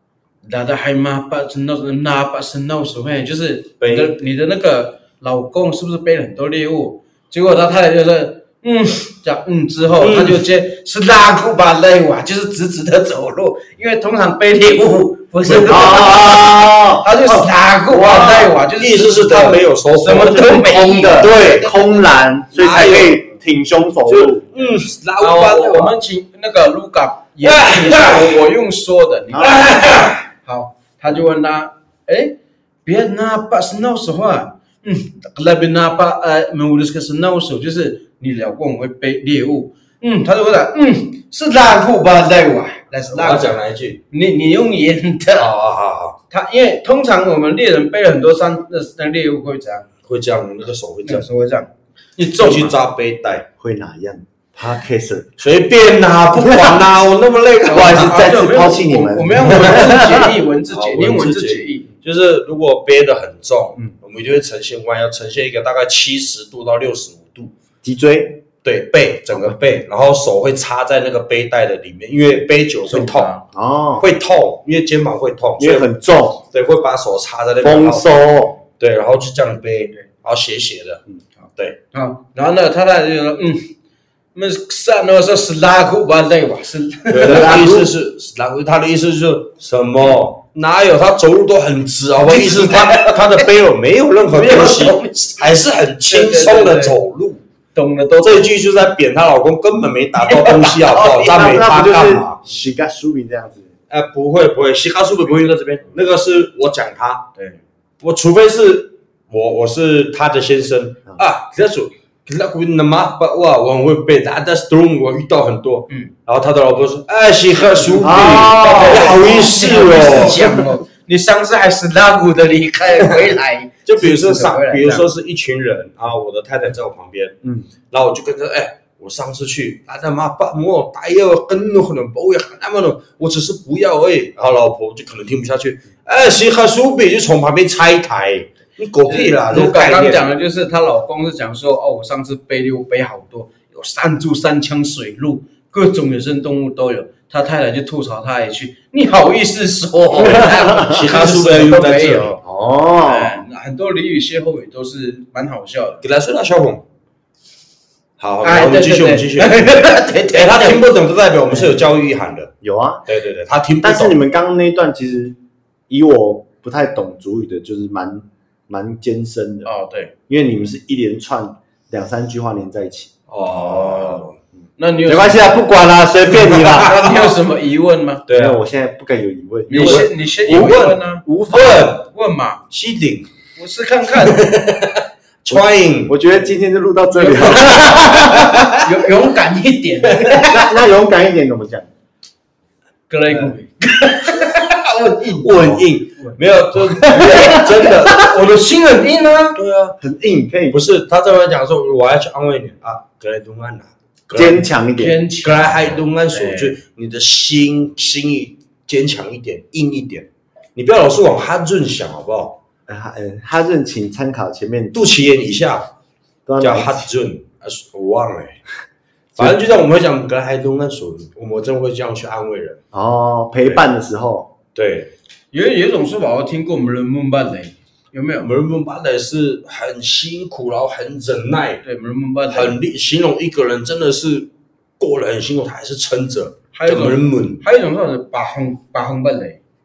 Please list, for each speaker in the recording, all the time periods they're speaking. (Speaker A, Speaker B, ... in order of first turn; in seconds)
Speaker A: 0.4-16.5, 17.0-23.4, 24.6-43.6, 44.1-45.5, 46.3-49.9, 51.0-52.8, 57.6-61.9, 72.8-73.4, 81.9-83.7, 84.3-87.7, 92.2-93.5, 94.3-95.5, 96.1-97.0, 97.7-98.5, 100.2-101.5, 107.3-107.6, 117.7-125.1, 139.1-152.4, 153.0-156.0, 158.4-160.8, 169.6-170.1, 173.5-175.7, 176.5-178.3, 179.7-182.7, 183.6-184.5, 187.1-190.6, 193.1-199.6, 204.9-206.8, 225.5-228.5, 231.8-232.8, 236.7-239.6
Speaker B: 3.8-4.1, 10.0-10.4, 15.4-16.4, 18.8-20.5, 21.2-21.7, 22.6-23.2, 24.1-25.9, 27.4-28.4, 29.4-30.2, 43.1-44.0, 45.4-46.2, 50.0-51.3, 52.4-53.5, 55.4-58.3, 59.4-60.1, 60.7-67.5, 68.6-73.4, 74.0-75.9, 76.5-78.1, 78.8-81.0, 87.1-97.4, 98.2-102.4, 103.9-107.3, 108.0-120.5, 123.8-127.4, 127.9-140.3, 150.2-152.3, 156.0-156.8, 158.2-162.5, 163.1-164.2, 173.3-174.4, 176.4-177.3, 178.3-178.6, 179.7-182.1, 182.7-183.3, 184.2-186.2, 187.6-188.7, 195.3-198.5, 199.6-200.0, 200.7-204.7, 205.4-212.6, 214.9-215.9, 216.6-218.6, 219.3-222.8, 224.8-225.1, 228.4-231.8, 232.5-237.6
Speaker C: 15.7-18.6, 20.1-24.5, 29.3-29.6, 53.6-55.4, 56.4-56.8, 57.7-60.3, 67.8-68.4, 73.5-74.1, 75.6-76.4, 77.6-78.6, 87.2-87.9, 101.3-103.7, 118.0-120.6, 127.4-127.7, 150.2-151.0, 152.4-153.4, 161.5-161.8, 162.6-163.1, 163.8-165.4, 165.9-169.7, 170.3-173.1, 175.1-176.9, 178.3-180.1, 181.3-181.8, 185.5-188.5, 190.4-191.9, 197.2-197.6, 200.0-200.8, 204.3-205.2, 212.9-214.9, 216.5-217.1, 222.9-224.5